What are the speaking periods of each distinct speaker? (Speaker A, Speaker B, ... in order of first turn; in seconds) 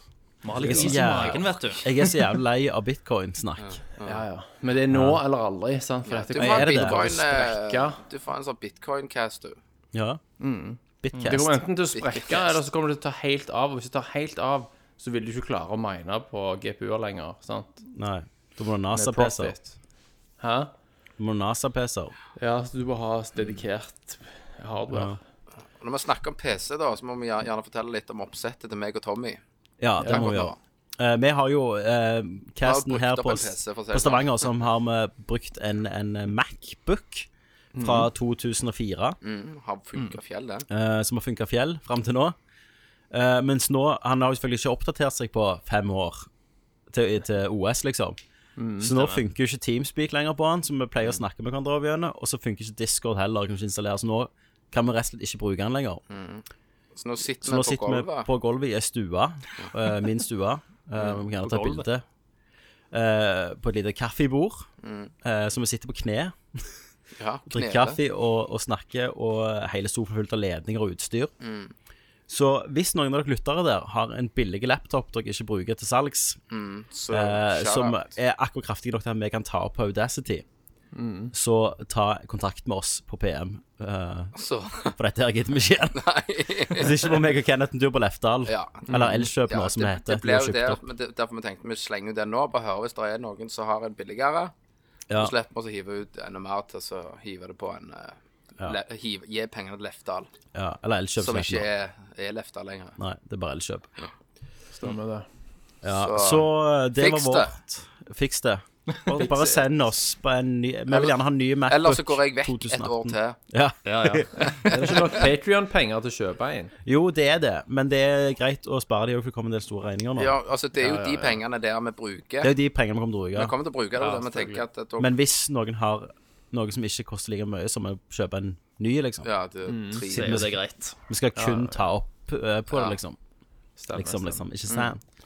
Speaker A: 0.4-1.9, 11.1-11.4, 48.9-49.2, 61.4-61.8, 113.8-114.3, 130.1-130.9
Speaker B: 0.5-1.4, 4.0-8.0, 10.4-17.8, 18.9-19.7, 20.4-20.7, 22.4-25.2, 30.0-30.3, 37.8-38.1, 48.6-49.0, 80.9-81.3, 88.9-89.3, 104.7-105.3, 109.1-109.7, 114.7-116.7, 120.8-121.4, 124.0-124.6, 129.7-130.3, 131.3-131.8, 133.8-134.9
Speaker C: 0.6-3.8, 4.9-5.2, 6.3-7.1, 9.9-10.2, 11.0-11.6, 17.9-19.6, 21.2-22.1, 24.9-25.2, 29.8-37.3, 37.8-39.2, 40.7-42.4, 43.1-46.3, 46.9-48.2, 48.8-56.0, 57.4-62.0, 62.9-64.7, 65.2-66.7, 67.5-71.3, 72.3-76.4, 77.1-80.4, 81.3-84.3, 84.9-86.0, 86.7-90.8, 100.5-101.7, 103.0-103.9, 105.8-114.5, 116.8-120.3, 122.4-123.5, 125.0-129.3, 130.2-130.6, 131.1-133.2, 133.9-135.0
Speaker D: 3.6-4.2, 6.0-9.6, 11.9-12.6, 25.8-29.4, 30.0-30.6, 32.6-34.3, 39.2-40.6, 56.1-56.4, 56.9-58.3, 61.0-61.2, 64.8-65.1, 67.2-68.0, 71.4-71.7, 76.5-78.1, 84.3-85.0, 85.9-87.1, 88.5-94.5, 95.2-100.3, 101.2-103.0, 105.9-107.5, 110.9-111.2, 111.7-113.4, 114.4-114.9, 120.2-122.5, 123.3-125.1, 129.2-130.5, 132.7-133.0